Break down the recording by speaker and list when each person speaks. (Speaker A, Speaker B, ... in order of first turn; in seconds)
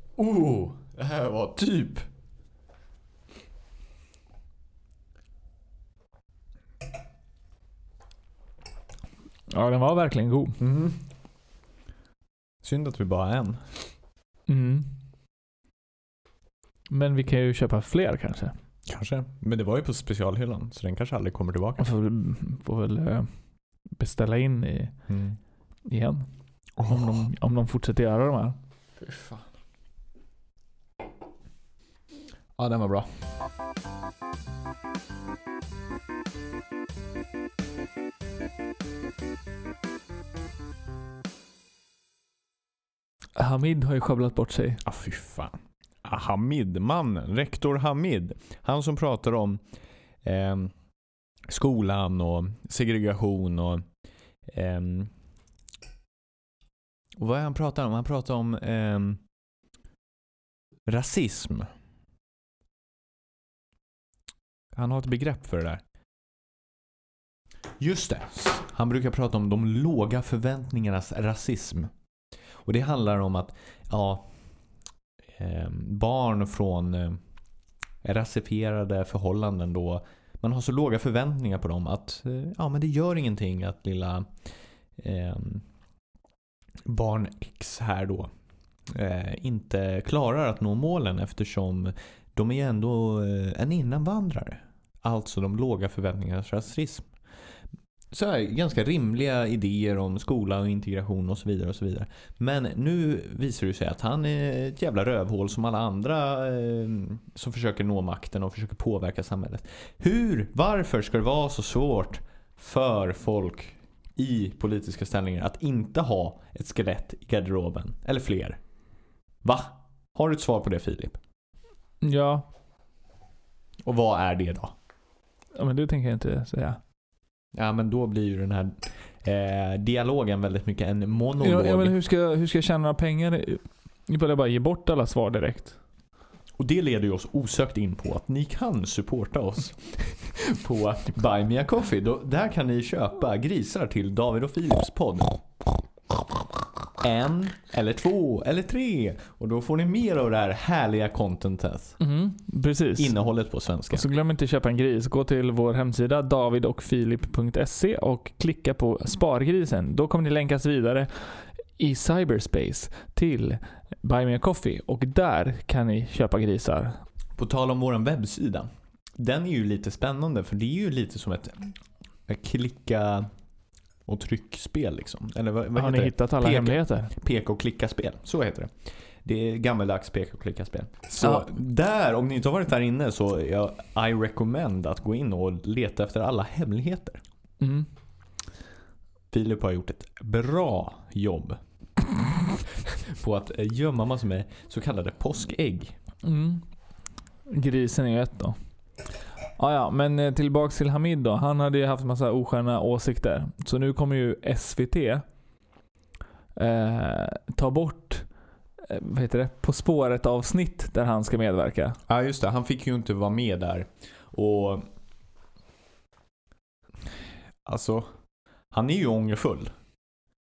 Speaker A: 0.2-2.0, 10.6-11.0, 12.6-13.6, 18.9-21.9, 25.1-25.4, 26.8-27.3, 29.0-29.4, 32.5-33.1, 44.8-49.6, 50.2-50.7, 51.5-53.8, 54.5-55.1, 57.2-59.2, 60.9-61.7, 64.7-65.8, 67.8-71.9, 72.6-74.2, 75.4-77.2, 78.0-84.3, 85.0-85.6, 86.8-88.3, 88.9-97.1, 98.1-118.6, 119.4-121.2, 123.8-124.7, 127.5-131.9, 136.6-145.3, 147.0-152.0, 153.0-154.1, 167.4-171.7, 172.3-173.3, 174.1-178.7, 179.2-187.2, 189.3-191.6, 192.2-195.9, 212.1-214.8, 217.7-218.1, 218.7-219.7
Speaker B: 9.5-10.6, 14.5-14.9, 16.9-18.5, 21.8-23.3, 23.9-24.9, 25.9-26.3, 26.8-28.6, 43.4-44.8, 122.0-122.5, 125.5-126.8, 131.4-135.8, 152.0-153.1, 153.9-167.0, 175.7-177.1, 181.2-181.5, 187.6-187.9, 196.2-196.6, 197.5-198.6, 199.6-205.2, 206.6-208.3, 208.8-212.0